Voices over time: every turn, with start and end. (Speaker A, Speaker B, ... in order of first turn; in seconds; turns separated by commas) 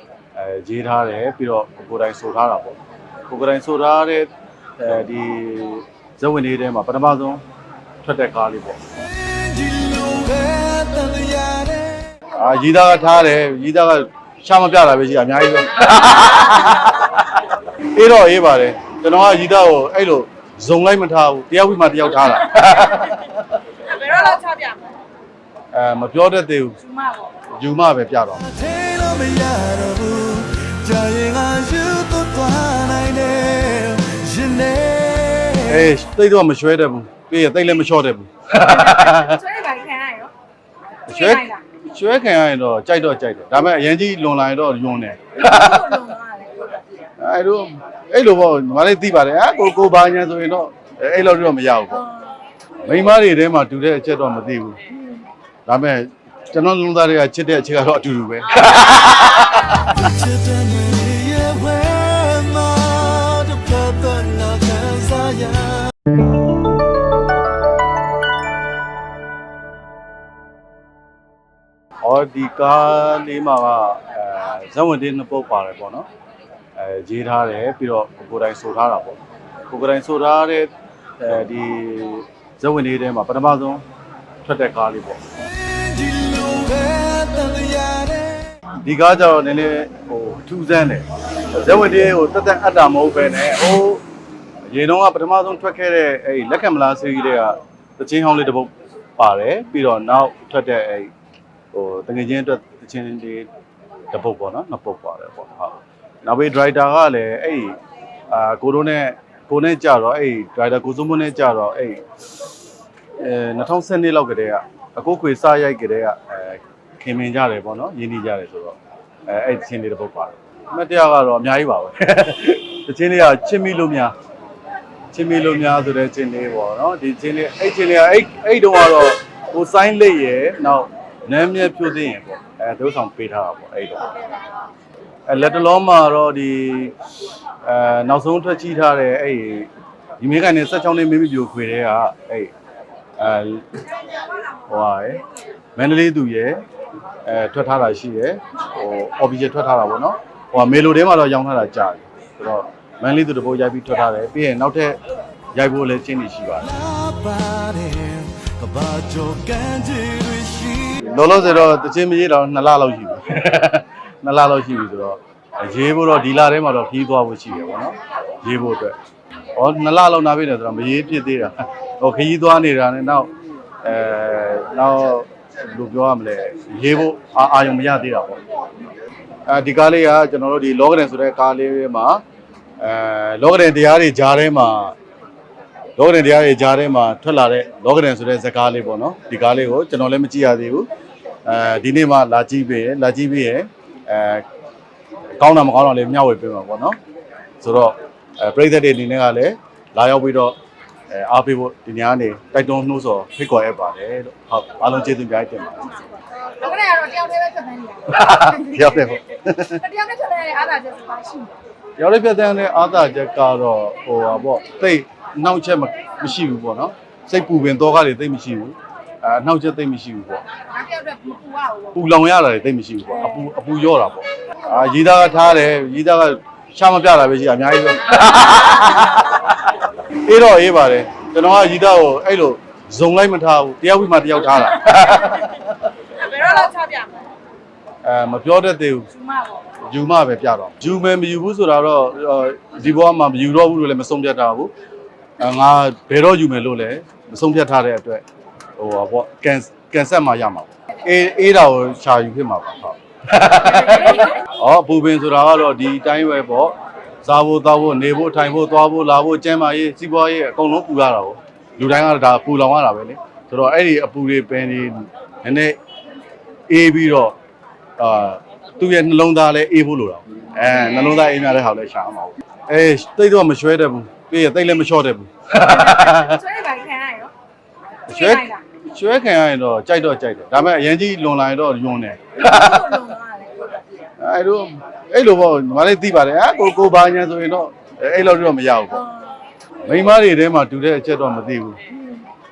Speaker A: 0.3-2.8, Speaker A: 3.3-7.4, Speaker A: 8.0-8.8, Speaker B: 9.0-12.1, Speaker A: 12.3-23.4, Speaker C: 23.9-24.8, Speaker A: 25.7-26.8, Speaker C: 27.0-27.3, Speaker A: 27.6-28.5, Speaker B: 28.4-35.9, Speaker A: 35.7-39.4, Speaker C: 38.6-40.3, Speaker A: 41.1-46.0, Speaker C: 41.1-41.6, Speaker C: 45.4-46.8, Speaker A: 47.2-52.0, Speaker C: 52.0-52.4, Speaker A: 52.8-54.8, Speaker C: 55.0-55.2, Speaker A: 55.7-60.0, Speaker B: 59.9-65.9, Speaker A: 72.0-76.1, Speaker A: 76.8-83.8, Speaker A: 84.4-85.2, Speaker B: 85.4-88.5, Speaker A: 88.8-94.0, Speaker A: 94.7-101.1, Speaker A: 101.7-103.5, Speaker A: 104.1-107.8, Speaker A: 108.3-112.0, Speaker A: 113.2-124.1, Speaker A: 125.1-134.2, Speaker A: 135.3-137.0, Speaker A: 137.6-142.5, Speaker A: 143.2-143.8, Speaker A: 144.7-145.2, Speaker A: 145.8-146.6, Speaker A: 147.2-155.0, Speaker A: 155.6-156.7, Speaker B: 156.7-161.1, Speaker A: 161.0-168.9, Speaker A: 169.6-173.3, Speaker A: 173.8-178.4, Speaker A: 179.5-182.2, Speaker A: 182.8-184.9, Speaker A: 186.0-190.9, Speaker A: 191.5-194.5, Speaker A: 195.4-197.0, Speaker A: 197.6-200.6, Speaker A: 201.1-206.0, Speaker C: 206.3-209.0, Speaker A: 208.1-209.8, Speaker C: 209.8-211.5, Speaker A: 212.0-220.4, Speaker C: 220.7-221.9, Speaker A: 221.9-235.8, Speaker C: 236.3-237.2, Speaker A: 238.0-239.1, Speaker C: 239.2-239.6, Speaker A: 239.8-244.7, Speaker A: 245.4-248.2, Speaker A: 248.8-265.8, Speaker A: 266.7-267.4, Speaker A: 268.0-276.4, Speaker C: 275.6-277.3, Speaker A: 278.1-283.0, Speaker C: 278.1-278.6, Speaker C: 282.4-283.8, Speaker A: 284.2-289.0, Speaker C: 289.0-289.4, Speaker A: 289.8-291.8, Speaker C: 291.9-292.3